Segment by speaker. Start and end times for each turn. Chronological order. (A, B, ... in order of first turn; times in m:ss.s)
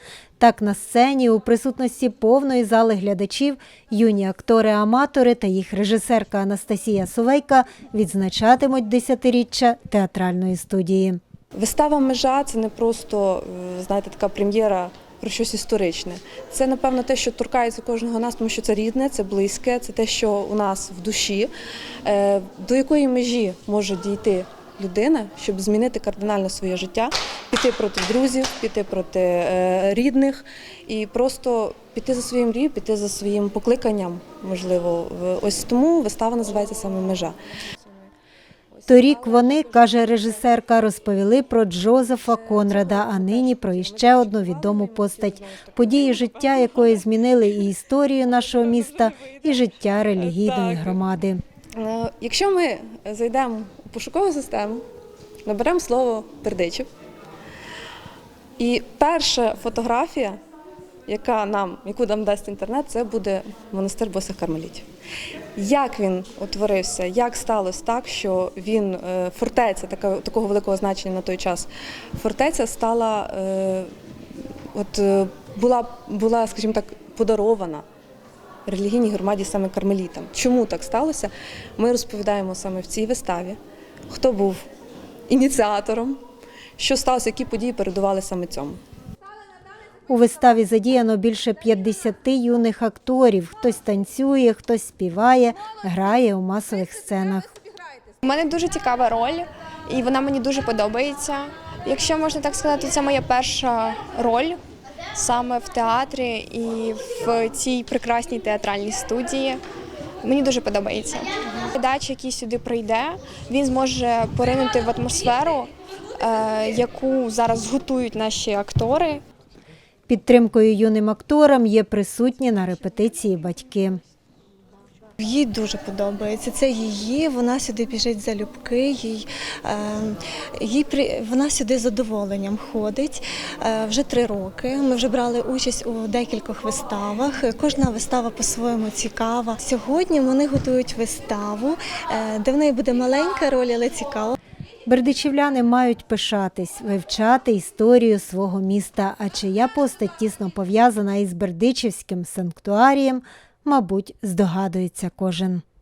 0:00.4-0:11.2 A
0:11.6-0:21.5 B
0:22.0-0:37.4 B
0:38.9-0:51.4 A
0:50.4-0:50.8 B
0:51.8-0:54.8 B
0:55.4-0:56.9 B
0:58.6-1:00.4 B
1:01.1-1:04.9 B
1:05.6-1:17.8 B
1:18.7-1:23.6 B
1:24.1-1:24.6 B
1:25.3-1:26.2 B
1:26.8-1:28.8 B
1:30.1-1:37.5 A
1:38.2-1:44.6 C
1:45.1-1:49.6 C
1:50.2-1:59.2 C
2:00.1-2:04.0 A
2:05.2-2:24.4 D
2:24.9-2:35.6 A